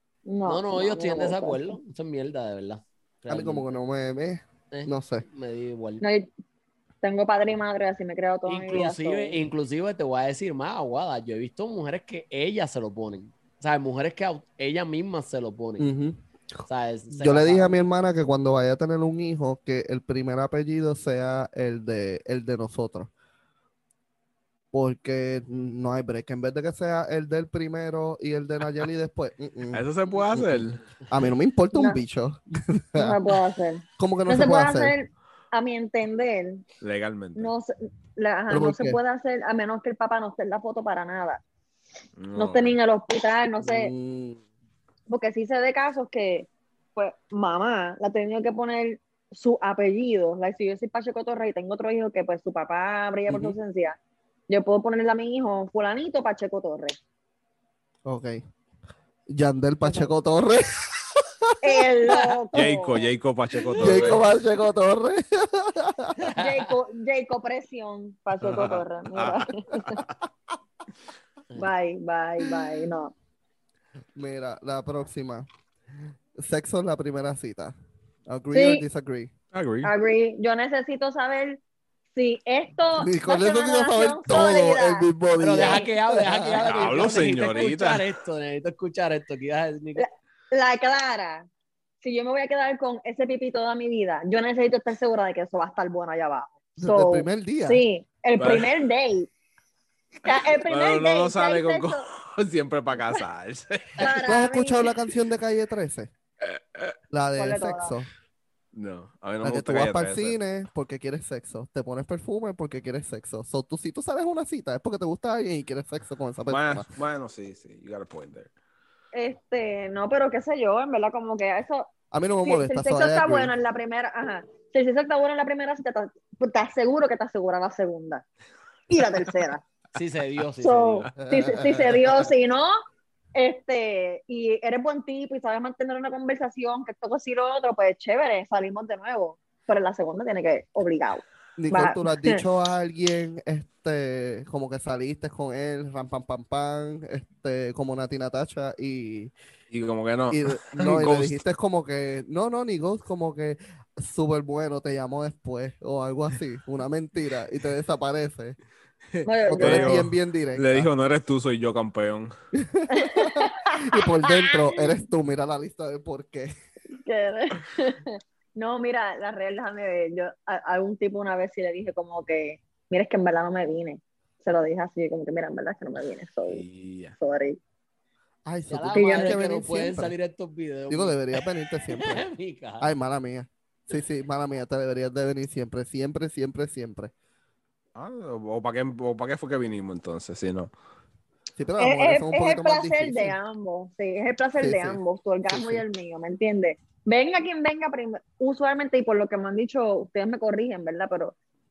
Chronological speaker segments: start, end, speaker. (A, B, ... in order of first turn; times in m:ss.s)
0:00.3-0:01.8 A
0:00.5-0:03.7 B
0:03.3-0:05.2 C
0:04.7-0:06.0 B
0:06.0-0:06.3 A
0:07.0-0:09.4 A
0:08.5-0:15.9 B
0:15.8-0:16.2 C
0:16.7-0:17.8 B
0:17.1-0:23.1 C
0:24.7-0:33.2 C
0:29.7-0:30.8 D
0:31.7-0:32.0 A
0:33.0-0:36.6 A
0:34.0-0:34.9 C
0:36.8-0:37.5 D
0:37.4-0:41.4 A
0:38.5-0:39.0 C
0:42.2-0:42.8 D
0:42.4-0:43.9 A
0:43.6-0:44.4 C
0:45.1-0:54.0 A
0:53.3-0:53.6 C
0:54.5-0:57.0 A
0:58.1-0:58.4 C
0:59.3-1:01.8 C
1:01.6-1:03.1 A
1:02.1-1:02.4 B
1:02.5-1:04.2 D
1:03.7-1:04.2 B
1:03.8-1:06.3 C
1:06.2-1:06.7 B
1:06.4-1:10.0 A
1:08.4-1:09.9 D
1:11.6-1:13.1 A
1:14.2-1:15.5 C
1:16.4-1:17.7 C
1:18.3-1:19.3 C
1:18.5-1:18.8 A
1:19.5-1:19.9 D
1:19.8-1:21.6 A
1:22.2-1:25.9 A
1:23.0-1:27.0 C
1:25.4-1:30.0 B
1:26.6-1:28.1 D
1:30.0-1:31.5 A
1:32.0-1:39.3 A
1:36.8-1:37.8 C
1:38.4-1:38.8 D
1:40.2-1:42.0 A
1:40.2-1:44.2 D
1:44.0-1:44.9 A
1:44.1-1:46.1 C
1:46.4-1:47.0 D
1:47.1-1:48.1 C
1:47.4-1:48.0 A
1:48.7-1:50.4 D
1:49.4-1:56.9 C
1:56.5-1:58.5 D
1:59.1-2:01.9 A
2:02.1-2:03.5 C
2:02.4-2:08.2 A
2:08.9-2:09.6 A
2:09.9-2:11.1 B
2:10.6-2:12.8 A
2:11.2-2:12.0 C
2:13.4-2:22.4 A
2:21.6-2:29.3 C
2:29.7-2:31.4 D
2:30.3-2:38.6 C
2:39.1-2:42.3 D
2:39.2-2:40.0 A
2:39.5-2:40.9 C
2:42.6-2:46.5 C
2:42.9-2:45.0 A
2:47.0-2:56.6 A
2:56.5-2:57.2 D
2:57.2-2:57.6 A
2:58.5-3:00.1 C
2:58.7-3:02.9 B
2:58.9-2:59.4 A
3:00.9-3:02.3 C
3:02.8-3:07.1 C
3:08.0-3:10.7 D
3:11.6-3:13.4 C
3:11.8-3:21.4 A
3:14.6-3:15.8 C